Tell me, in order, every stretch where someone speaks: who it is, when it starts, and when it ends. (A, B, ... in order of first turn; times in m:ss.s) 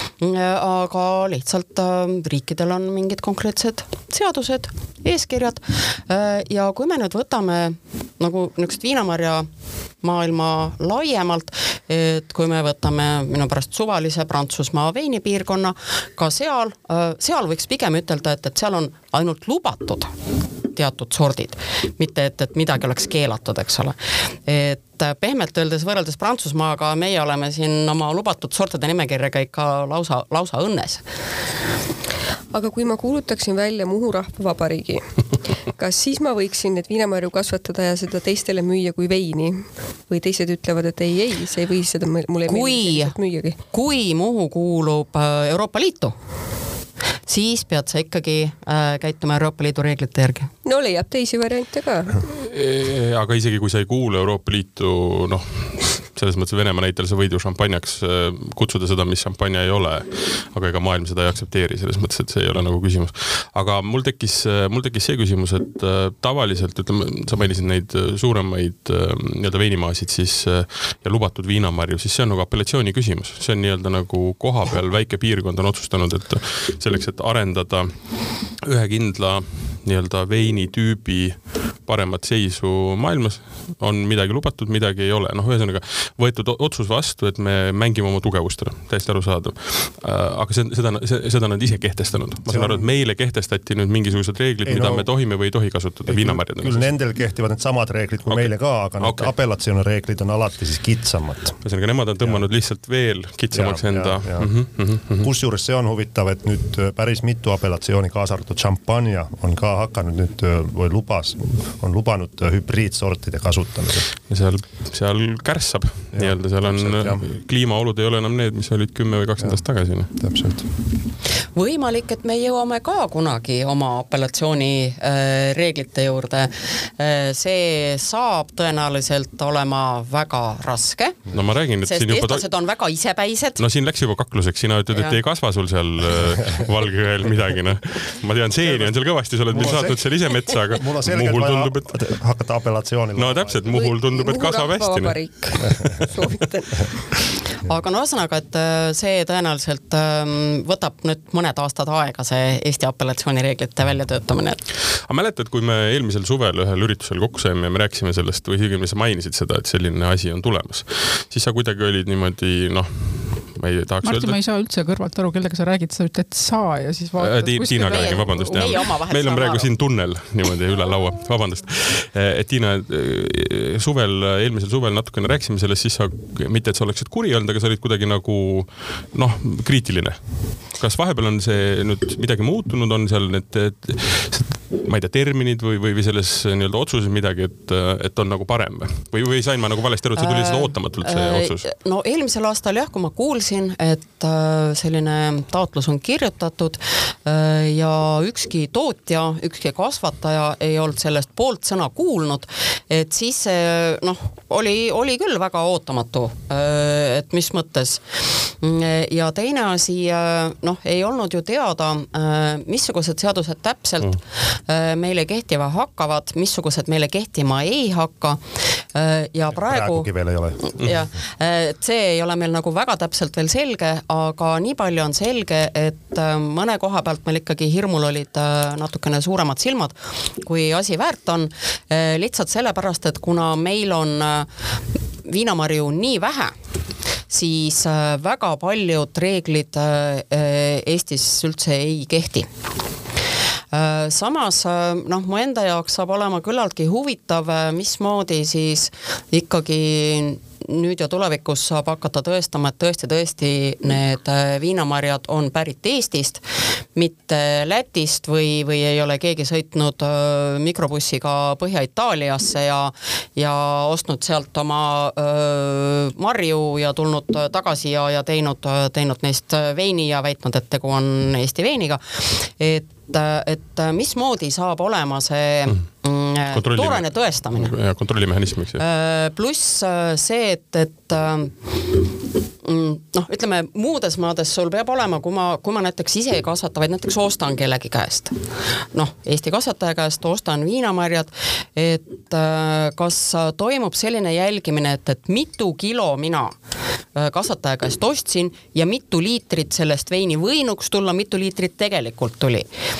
0:00.2-0:09.4 A
0:10.0-0:20.1 A
0:20.7-0:31.0 A
0:32.5-0:43.6 B
0:42.4-0:43.2 A
0:43.7-0:46.2 A
0:47.2-0:50.5 A
0:50.6-0:52.3 B
0:52.3-1:36.9 C
1:32.5-1:32.8 D
1:34.6-1:35.1 D
1:36.1-1:41.6 D
1:38.3-1:39.3 C
1:41.6-1:45.3 C
1:43.5-1:44.5 D
1:45.2-1:54.1 D
1:54.3-2:00.5 C
1:56.1-1:57.2 D
2:00.2-2:00.6 D
2:01.5-2:11.3 A
2:11.3-2:12.5 C
2:11.8-2:13.6 A
2:13.6-2:22.2 C
2:14.9-2:15.2 A
2:18.6-2:18.9 D
2:19.5-2:20.1 D
2:20.7-2:23.6 D
2:23.2-2:25.2 C
2:23.7-2:27.2 B
2:25.8-2:26.0 D
2:27.6-2:34.6 A
2:35.0-2:44.4 C
2:44.0-2:48.8 E
2:47.2-3:11.7 C
2:47.9-2:49.7 A
3:10.2-3:40.1 A
3:39.5-3:41.0 D
3:40.7-3:54.5 A
3:55.2-3:56.5 A
3:57.3-4:02.5 A
4:03.7-4:16.4 A
4:16.9-4:37.8 A
4:36.5-4:38.8 C
4:38.8-4:41.8 A
4:42.6-4:48.4 A
4:48.9-4:56.6 A
4:57.1-5:02.7 A